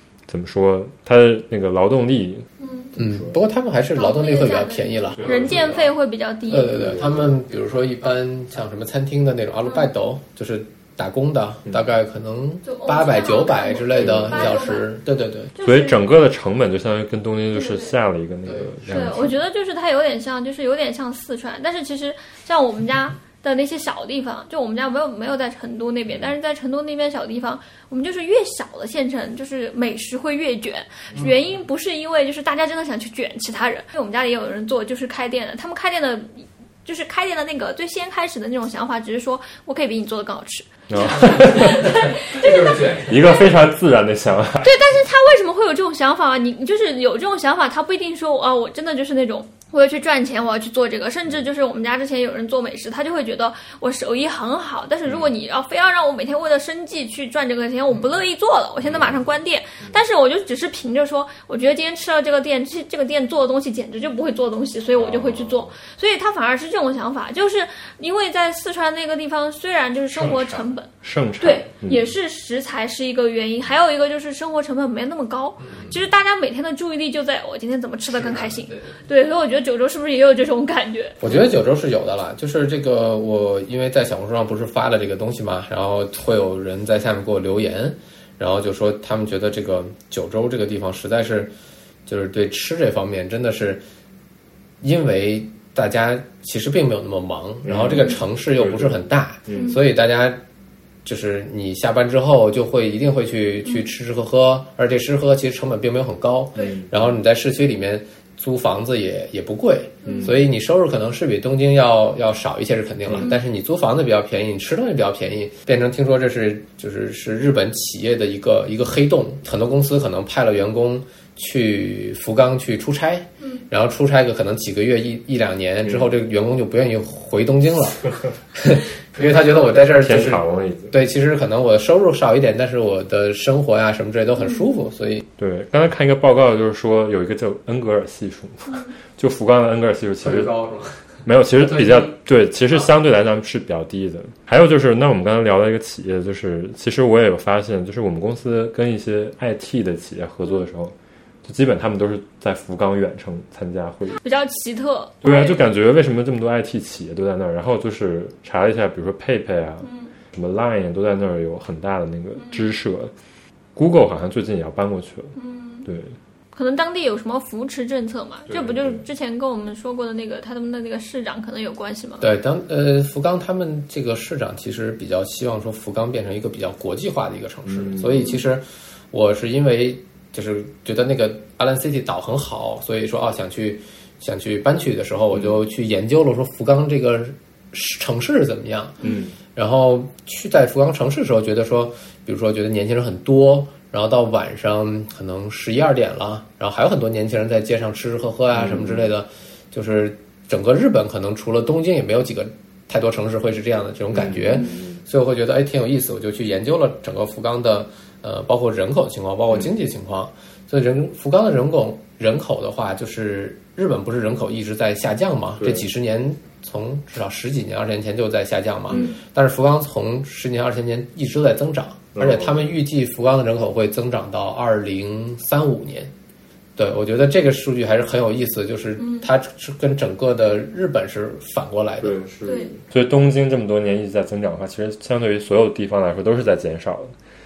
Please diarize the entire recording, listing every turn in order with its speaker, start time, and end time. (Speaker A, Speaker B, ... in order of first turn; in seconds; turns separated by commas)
Speaker A: 0.3-2.5, Speaker B: 2.6-2.9, Speaker C: 3.0-5.9, Speaker A: 3.0-3.4, Speaker B: 4.0-6.9, Speaker A: 5.2-5.7, Speaker C: 6.5-15.5, Speaker A: 6.8-7.3, Speaker B: 12.6-14.9, Speaker A: 14.0-14.5, Speaker B: 15.5-16.0, Speaker A: 15.6-19.4, Speaker B: 17.5-17.9, Speaker C: 18.4-18.7, Speaker B: 18.9-43.4, Speaker A: 40.9-42.0, Speaker C: 41.6-43.1, Speaker A: 42.9-44.8, Speaker B: 44.6-70.9, Speaker A: 55.0-55.3, Speaker A: 58.8-59.2, Speaker A: 64.9-65.7, Speaker A: 70.2-72.0, Speaker B: 71.4-81.2, Speaker C: 75.6-75.9, Speaker C: 78.1-78.9, Speaker C: 81.2-91.5, Speaker C: 92.0-93.8, Speaker C: 94.8-100.4, Speaker A: 97.6-99.8, Speaker B: 99.5-99.8, Speaker C: 101.0-135.2, Speaker A: 106.5-107.1, Speaker B: 110.0-110.4, Speaker A: 110.0-110.3, Speaker A: 129.2-131.0, Speaker A: 135.4-140.5, Speaker C: 140.2-141.0, Speaker A: 141.2-154.2, Speaker C: 141.6-142.1, Speaker B: 154.2-155.6, Speaker A: 155.2-163.1, Speaker B: 159.8-160.1, Speaker B: 162.4-162.7, Speaker A: 163.8-166.1, Speaker B: 165.3-165.9, Speaker B: 166.5-172.3, Speaker A: 168.5-169.0, Speaker C: 172.2-188.9, Speaker A: 177.7-178.3, Speaker A: 189.0-189.3, Speaker C: 189.5-226.1, Speaker A: 198.5-199.1, Speaker A: 204.1-205.0, Speaker A: 215.6-215.9, Speaker A: 222.1-222.7, Speaker C: 226.8-232.2, Speaker B: 229.0-229.2, Speaker A: 232.0-237.1, Speaker B: 232.4-232.7